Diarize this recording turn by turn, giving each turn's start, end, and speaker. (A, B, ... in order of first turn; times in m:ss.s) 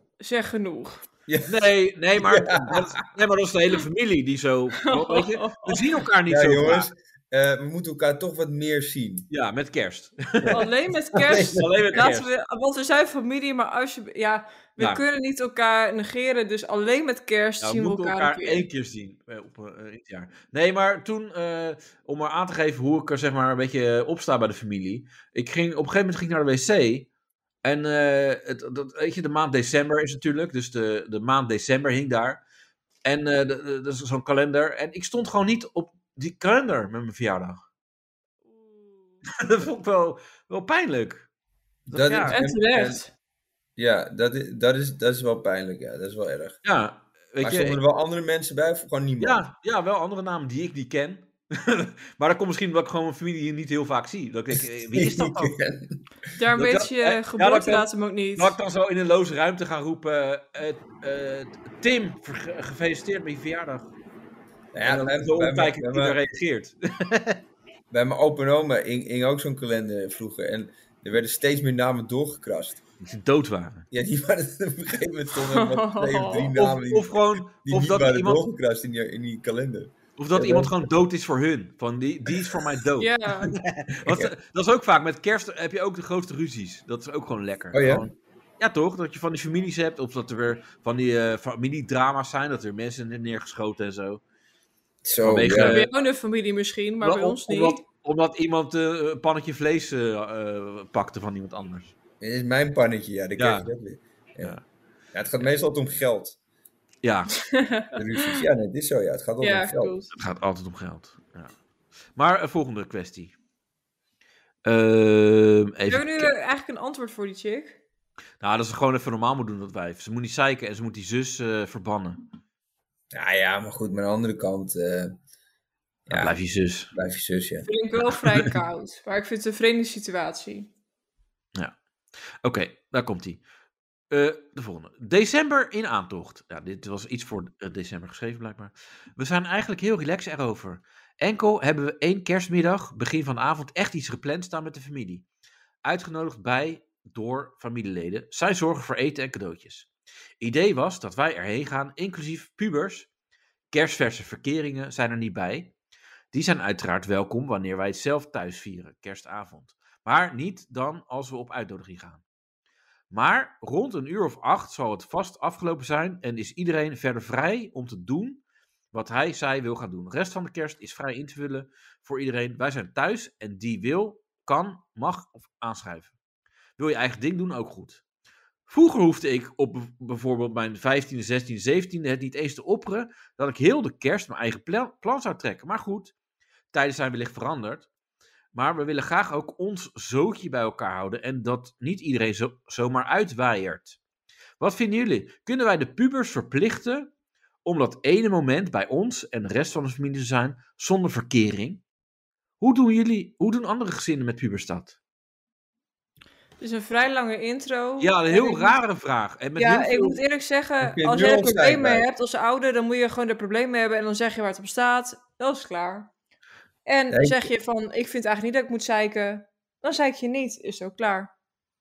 0:00.2-0:01.0 A
0:01.3-0:01.6 B
0:01.5-0:06.9 C
0:02.2-0:02.9 B
0:04.8-0:05.9 A
0:06.3-0:09.3 B
0:09.3-0:12.3 C
0:10.5-0:18.6 A
0:11.3-0:12.0 B
0:17.6-0:27.1 C
0:27.6-0:32.4 C
0:33.0-0:37.6 C
0:38.5-0:39.0 A
0:39.3-0:41.3 C
0:41.9-0:43.0 B
0:41.9-0:42.4 C
0:42.3-0:43.1 A
0:43.8-0:46.6 B
0:46.6-0:47.8 C
0:47.4-0:49.4 B
0:49.2-0:55.6 C
0:54.5-0:56.0 B
0:56.4-0:58.6 A
0:56.6-1:03.9 C
1:04.7-1:06.2 B
1:04.8-1:07.4 C
1:07.9-1:12.8 B
1:13.0-1:13.9 C
1:13.9-1:20.8 B
1:15.5-1:16.6 A
1:16.6-1:18.4 C
1:20.2-1:34.2 C
1:23.0-1:23.5 A
1:24.1-1:24.3 B
1:27.7-1:28.1 B
1:35.0-1:35.8 B
1:35.2-1:35.9 C
1:35.5-1:37.8 A
1:37.0-1:42.0 C
1:42.2-1:44.6 B
1:43.4-1:43.7 C
1:45.1-1:46.4 B
1:47.0-1:47.4 C
1:47.4-1:48.4 A
1:48.0-1:49.9 B
1:49.4-1:50.1 A
1:50.1-1:51.5 C
1:52.2-1:53.4 C
1:54.6-1:56.3 C
1:55.9-1:57.8 A
1:58.4-2:02.2 C
2:03.1-2:05.2 B
2:06.1-2:06.4 B
2:06.1-2:06.9 C
2:06.9-2:07.7 B
2:07.7-2:10.7 A
2:12.4-2:13.4 C
2:14.1-2:25.2 C
2:25.8-2:29.9 C
2:30.4-2:33.1 C
2:33.7-2:35.7 C
2:36.3-2:42.2 C
2:43.1-2:56.1 C
2:56.8-2:58.0 C
2:58.7-3:06.1 C
3:06.7-3:07.9 C
3:08.5-3:14.0 C
3:14.6-3:17.1 C
3:17.6-3:21.8 C
3:22.6-3:25.0 C
3:26.6-3:28.8 A
3:28.0-3:30.2 C
3:29.6-3:36.1 A
3:30.8-3:32.0 B
3:36.9-3:41.3 A
3:37.1-3:37.4 B